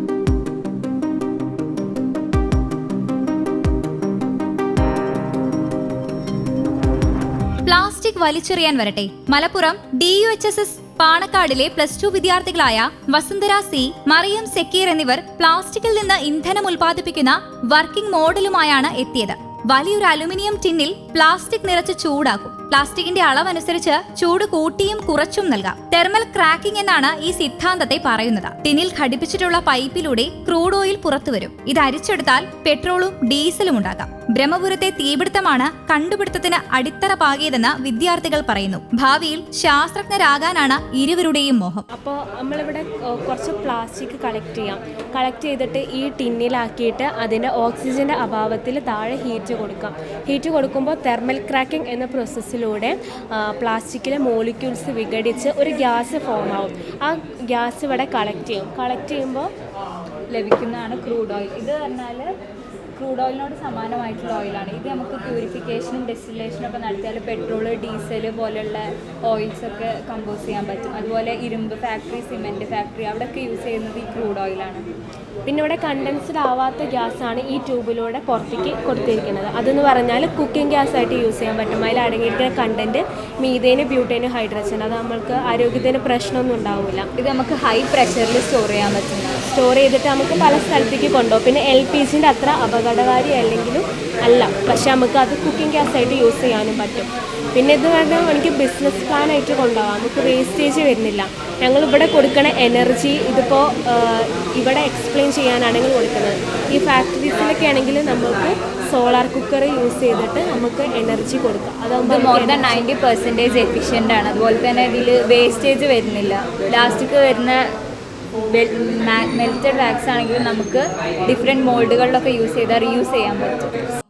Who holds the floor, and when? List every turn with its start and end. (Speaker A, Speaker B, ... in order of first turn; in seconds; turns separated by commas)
Speaker A: 7.6-41.8, Speaker B: 41.9-59.5, Speaker C: 60.3-62.3, Speaker C: 63.0-74.8, Speaker B: 75.5-87.1, Speaker C: 87.2-89.3, Speaker B: 89.5-112.8, Speaker C: 112.0-117.6, Speaker C: 118.5-123.6